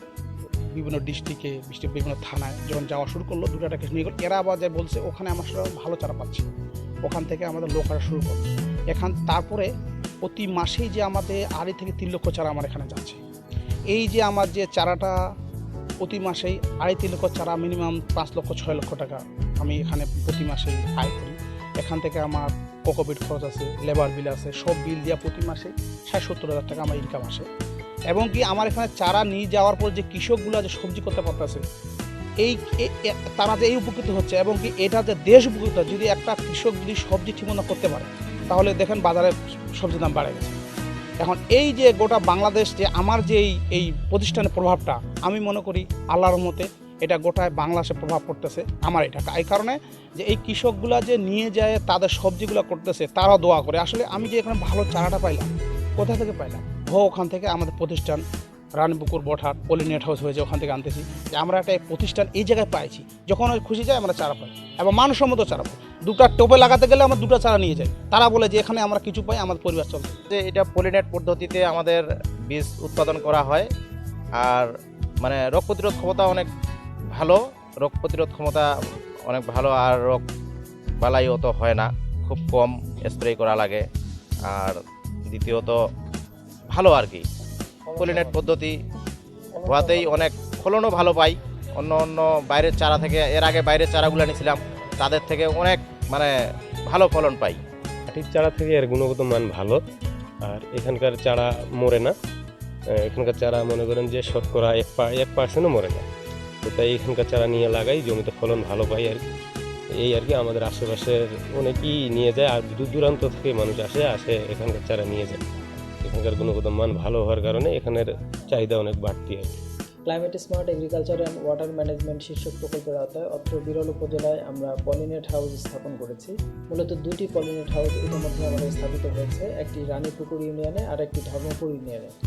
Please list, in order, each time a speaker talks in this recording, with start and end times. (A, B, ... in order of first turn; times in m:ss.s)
0:00.7-0:06.5 A
0:07.0-0:09.7 A
0:10.2-0:13.2 A
0:13.9-0:15.2 A
0:16.0-0:27.5 A
0:28.1-0:31.6 A
0:32.4-0:40.6 A
0:41.2-0:58.2 A
0:58.8-1:10.2 A
1:10.3-1:13.7 B
1:14.4-1:16.5 B
1:17.1-1:18.7 B
1:19.3-1:20.2 B
1:21.0-1:23.8 B
1:24.4-1:25.8 B
1:26.7-1:27.3 B
1:27.9-1:28.4 C
1:28.0-1:28.8 B
1:29.6-1:30.3 C
1:29.6-1:36.3 B
1:36.9-1:37.6 B
1:38.1-1:39.8 D
1:40.4-1:42.2 D
1:43.0-1:46.1 D
1:46.6-1:49.2 D
1:50.0-1:55.4 D
1:56.0-1:59.6 D
2:00.1-2:12.1 C